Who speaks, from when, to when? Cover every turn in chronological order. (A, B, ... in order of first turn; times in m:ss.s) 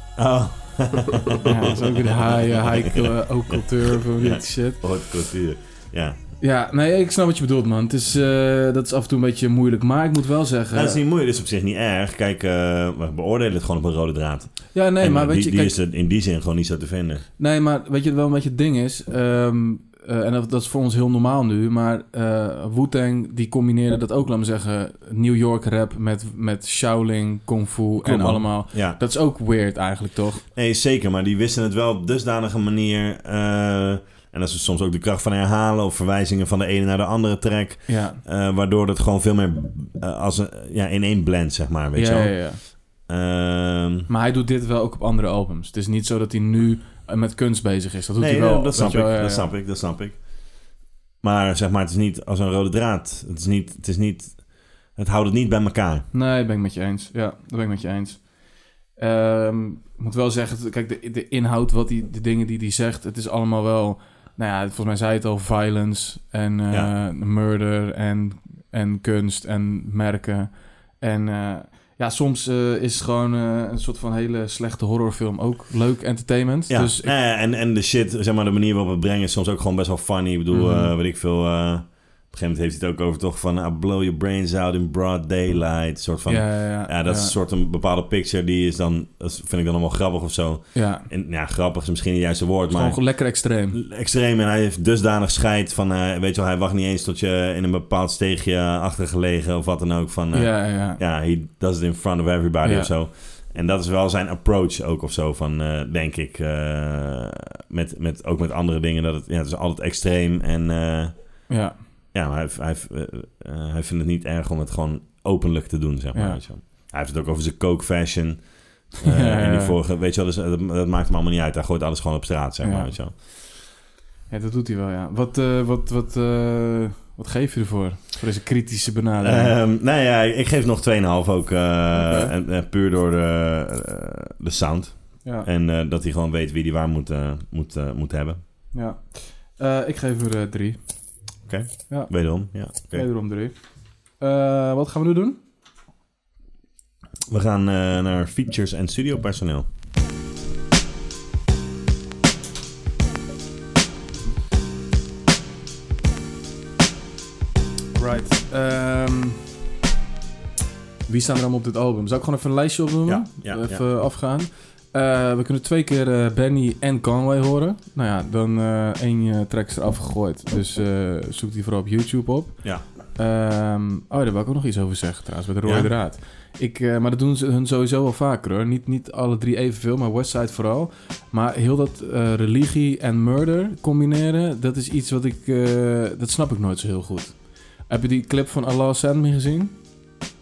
0:00.2-0:03.6 A
0:01.4-0:04.9 B
0:04.2-0:06.2 A
0:06.4-0:11.0 B
0:10.7-0:17.2 A
0:14.7-0:15.8 B
0:17.4-0:30.4 B
0:28.0-0:29.0 A
0:30.6-0:44.1 A
0:37.9-0:38.2 B
0:42.0-0:42.7 B
0:44.1-0:49.5 B
0:48.2-0:50.5 A
0:51.2-0:56.0 A
0:56.1-1:17.1 B
1:16.7-1:51.6 A
1:20.5-1:20.9 B
1:26.3-1:27.3 B
1:30.7-1:31.1 B
1:32.7-1:33.8 B
1:40.3-1:41.0 B
1:42.6-1:42.9 B
1:51.5-1:51.8 B
1:52.1-2:03.2 A
1:56.1-1:56.4 B
1:59.0-1:59.8 B
2:02.6-2:03.2 B
2:04.3-2:09.6 B
2:09.2-2:18.4 A
2:12.0-2:12.3 B
2:18.7-2:21.4 B
2:21.5-2:23.1 A
2:21.9-2:25.4 B
2:27.3-2:29.7 A
2:38.0-2:39.4 B
2:41.1-3:09.7 B
2:43.1-2:43.8 A